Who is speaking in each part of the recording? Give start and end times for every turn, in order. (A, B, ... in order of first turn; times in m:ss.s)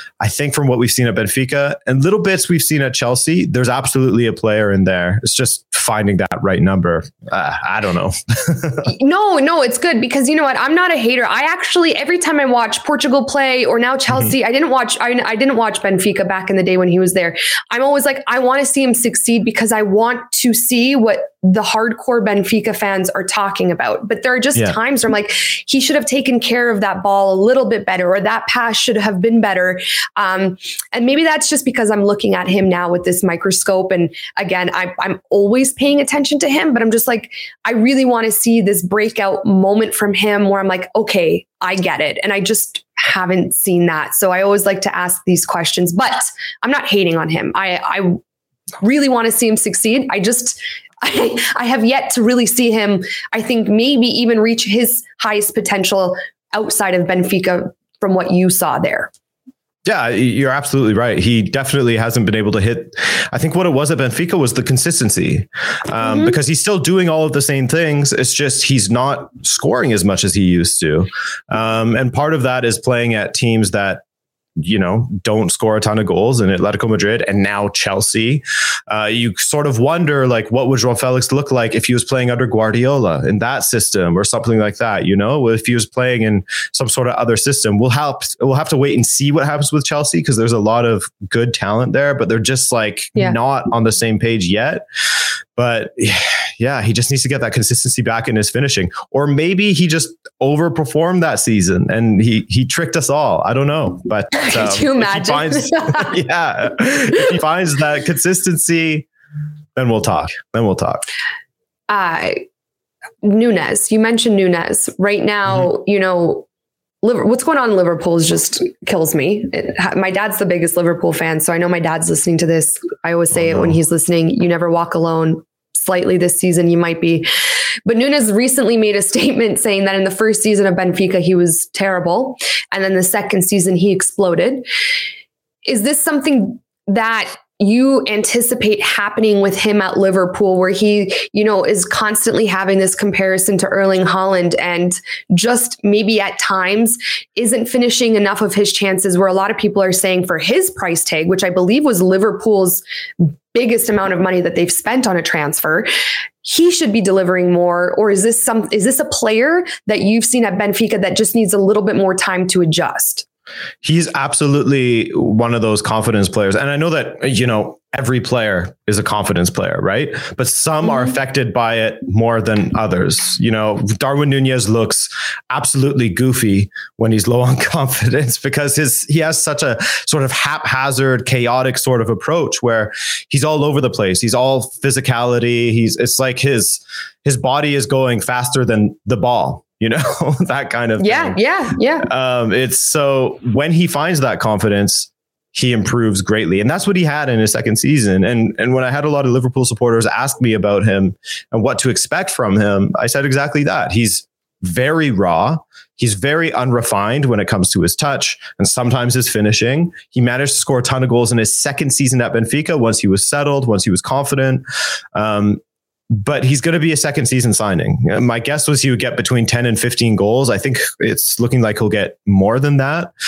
0:00.2-0:08.9 A
0:08.8-0:48.2 B
0:48.8-0:59.1 B
0:59.8-1:14.0 A
1:06.0-1:06.4 B
1:14.6-1:34.8 A
1:35.6-1:49.1 A
1:44.3-1:46.2 B
1:49.8-1:51.0 A
1:51.9-1:52.4 B
1:53.2-1:56.4 B
1:57.0-2:07.3 B
2:07.8-2:14.6 B
2:15.6-2:32.8 B
2:33.5-2:35.9 B
2:36.4-2:43.2 B
2:43.8-3:11.4 A
2:50.8-2:51.1 B
3:11.0-3:12.1 B
3:12.0-3:34.6 A
3:35.1-3:43.1 A